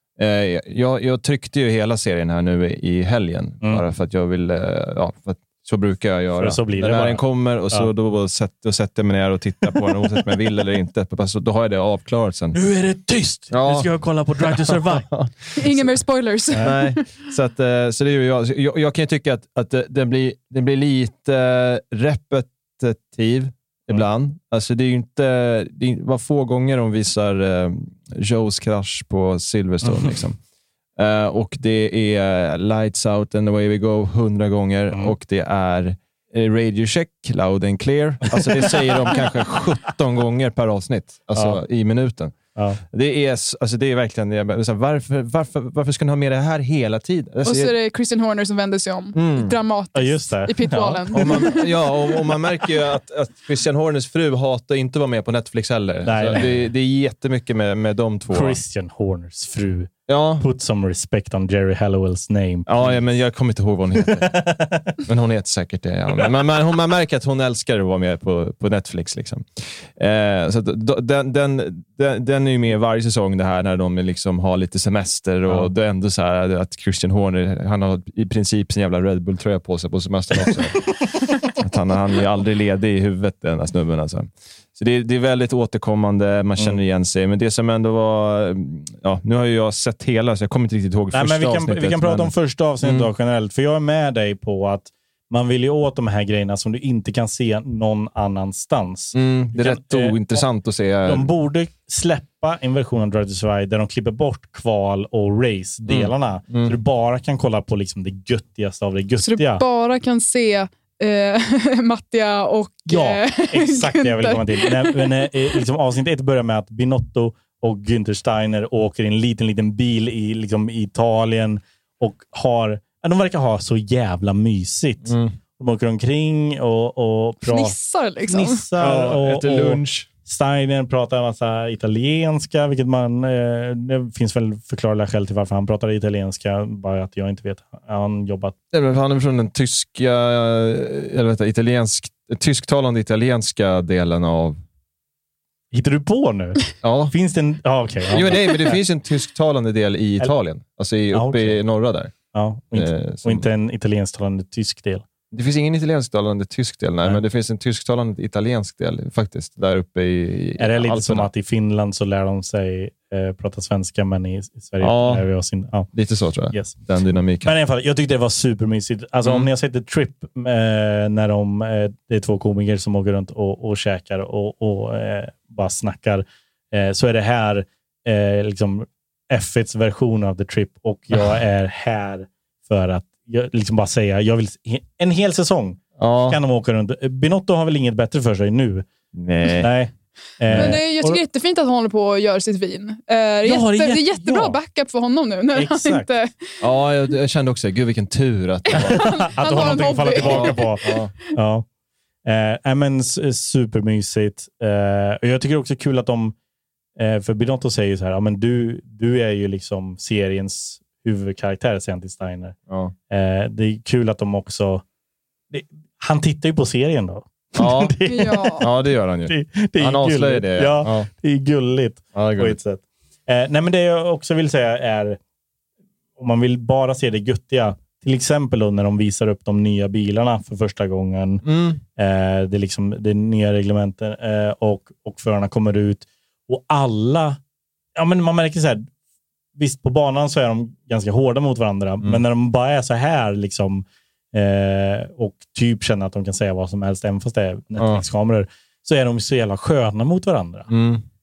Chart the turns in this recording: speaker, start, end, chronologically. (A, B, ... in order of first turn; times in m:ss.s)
0:00.2-0:12.6 A
0:06.4-0:07.9 B
0:09.7-0:10.3 B
0:12.5-0:15.1 B
0:13.5-0:15.9 A
0:15.6-0:17.0 C
0:16.5-0:16.8 B
0:16.6-0:30.4 A
0:31.0-0:42.3 A
0:41.3-0:41.6 B
0:42.6-0:42.8 B
0:42.9-0:47.7 A
0:47.4-0:51.9 C
0:49.2-0:49.5 A
0:50.0-0:51.5 B
0:51.1-0:58.6 A
0:56.0-0:56.7 B
0:58.3-1:03.0 B
1:00.1-1:00.5 A
1:02.7-1:04.4 A
1:04.1-1:05.0 B
1:05.0-1:20.9 A
1:21.6-1:33.1 A
1:31.1-1:40.4 B
1:39.1-1:41.3 A
1:41.0-1:49.6 B
1:45.9-1:46.8 A
1:49.2-1:55.3 C
1:52.9-2:07.8 B
2:05.0-2:05.4 A
2:07.4-2:08.6 C
2:08.2-2:18.6 B
2:08.8-2:10.1 A
2:18.7-2:24.6 A
2:25.7-2:28.8 B
2:26.8-2:27.2 A
2:28.1-2:32.1 A
2:31.1-2:31.7 B
2:32.3-2:35.1 B
2:32.7-2:33.5 A
2:35.3-2:41.3 A
2:40.6-2:45.9 B
2:44.8-2:45.2 A
2:45.9-2:47.5 A
2:46.5-2:46.8 B
2:47.4-3:08.9 B
3:06.0-3:06.4 A
3:09.1-3:09.7 A
3:09.6-3:11.2 B
3:10.5-3:10.8 A
3:10.5-3:16.6 C
3:13.4-3:14.6 B
3:15.5-3:16.1 B
3:16.6-3:21.1 A
3:18.7-3:21.1 C
3:18.9-3:21.7 B
3:22.2-3:26.4 B
3:27.0-3:32.6 B
3:32.7-3:32.9 A
3:33.1-3:34.8 B
3:35.5-3:45.2 B
3:37.6-3:38.0 A
3:38.1-3:38.7 C
3:38.6-3:41.1 A
3:42.1-3:42.6 A
3:46.2-3:57.4 B
3:51.4-3:51.8 A
3:58.0-3:58.9 B
3:59.6-4:10.7 B
4:07.8-4:08.0 A
4:10.7-4:11.0 A